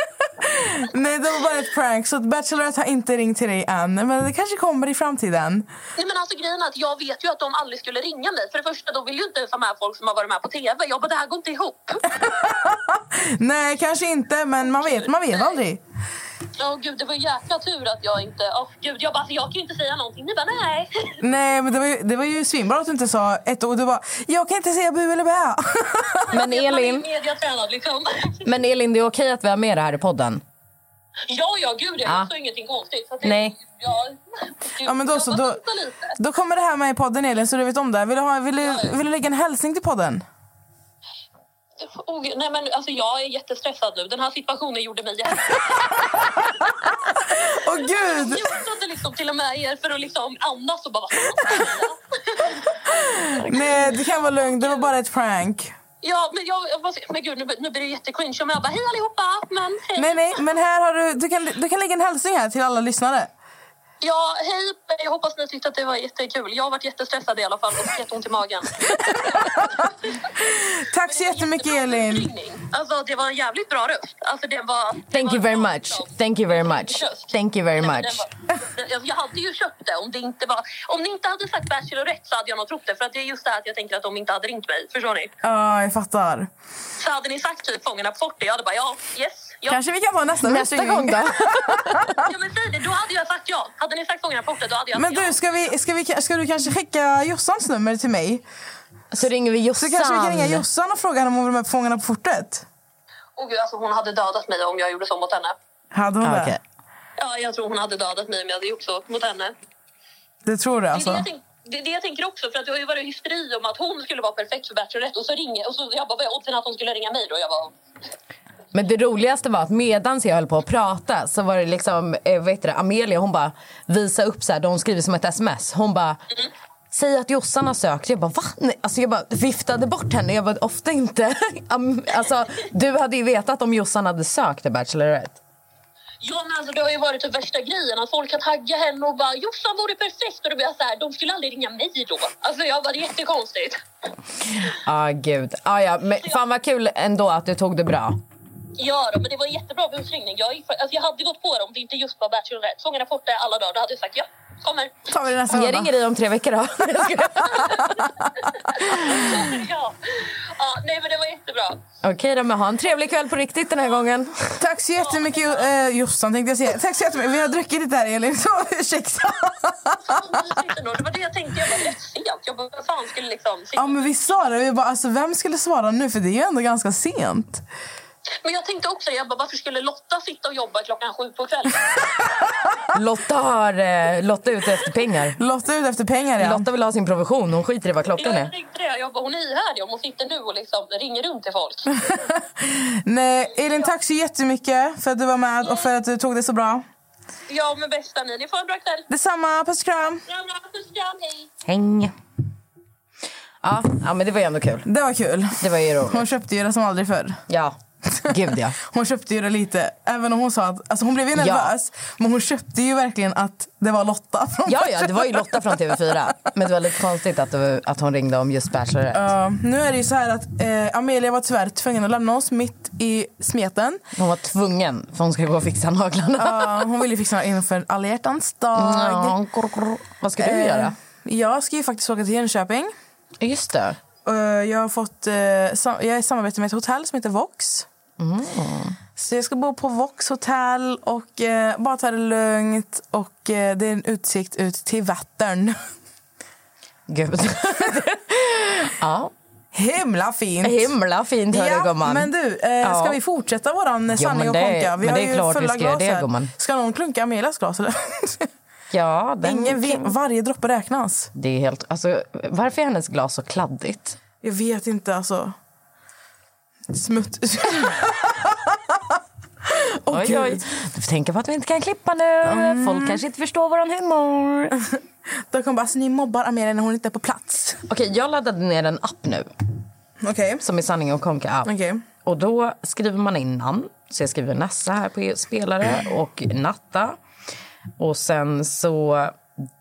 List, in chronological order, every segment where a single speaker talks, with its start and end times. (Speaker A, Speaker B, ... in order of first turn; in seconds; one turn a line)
Speaker A: 0.4-5.7
Speaker B: 6.0-12.0
Speaker A: 12.1-15.8
Speaker B: 14.7-15.6
Speaker B: 16.6-21.1
Speaker A: 21.2-26.3
Speaker B: 26.3-28.4
Speaker C: 26.3-27.1
Speaker C: 28.4-30.4
Speaker B: 31.3-36.1
Speaker C: 33.2-33.6
Speaker A: 34.8-35.6
Speaker A: 36.1-40.2
Speaker B: 38.6-38.9
Speaker B: 41.8-52.9
Speaker A: 47.3-48.5
Speaker A: 52.9-55.7
Speaker B: 54.3-54.9
Speaker B: 56.0-60.4
Speaker A: 60.0-63.3
Speaker B: 64.0-70.3
Speaker A: 68.9-69.7
Speaker A: 70.4-72.3
Speaker B: 71.0-85.3
Speaker C: 75.1-78.3
Speaker A: 85.4-86.5
Speaker B: 87.0-89.8
Speaker A: 89.7-92.3
Speaker C: 90.4-92.0
Speaker B: 92.2-95.4
Speaker A: 94.9-98.4
Speaker C: 99.1-100.6
Speaker A: 99.8-102.7
Speaker B: 103.4-105.6
Speaker A: 105.9-106.6
Speaker C: 106.2-106.6
Speaker B: 107.2-109.5
Speaker A: 110.4-111.3
Speaker B: 110.9-117.7
Speaker C: 118.7-126.2
Speaker C: 126.9-135.4
Speaker B: 136.2-143.8
Speaker C: 144.6-148.2
Speaker B: 148.8-155.1
Speaker A: 155.1-155.9
Speaker C: 155.5-157.9
Speaker B: 157.5-161.8
Speaker C: 162.0-164.6
Speaker A: 164.6-170.6
Speaker B: 165.0-165.7
Speaker B: 170.1-174.2
Speaker A: 173.8-177.6
Speaker B: 178.4-182.0
Speaker C: 182.9-185.4
Speaker A: 185.4-186.7
Speaker C: 186.4-188.5
Speaker B: 188.2-191.9
Speaker A: 192.0-196.8
Speaker B: 195.6-195.9
Speaker B: 197.5-199.1
Speaker A: 199.1-200.2
Speaker B: 200.3-201.5
Speaker C: 201.6-202.1
Speaker C: 203.6-204.9
Speaker A: 204.8-207.4
Speaker C: 205.6-206.3
Speaker C: 207.5-207.8
Speaker A: 208.1-216.0
Speaker C: 208.3-208.8
Speaker C: 211.3-211.7
Speaker C: 214.7-219.3
Speaker A: 219.1-224.0
Speaker C: 224.2-226.8
Speaker A: 226.4-229.4
Speaker C: 228.8-230.9
Speaker A: 230.3-232.9
Speaker C: 233.4-234.0
Speaker A: 234.2-237.9
Speaker C: 238.2-239.0
Speaker A: 239.2-245.8
Speaker C: 247.1-249.3
Speaker A: 249.7-250.9
Speaker C: 250.6-252.3
Speaker A: 251.5-258.5
Speaker C: 252.8-253.2
Speaker C: 254.1-256.5
Speaker C: 258.9-260.1
Speaker A: 259.4-261.3
Speaker C: 261.3-264.2
Speaker A: 264.4-265.6
Speaker A: 266.9-270.6
Speaker C: 270.1-274.8
Speaker A: 272.4-273.2
Speaker A: 275.5-277.8
Speaker C: 277.9-279.5
Speaker A: 280.2-280.6
Speaker C: 280.6-281.7
Speaker A: 281.6-282.1
Speaker C: 282.2-287.2
Speaker C: 288.0-289.4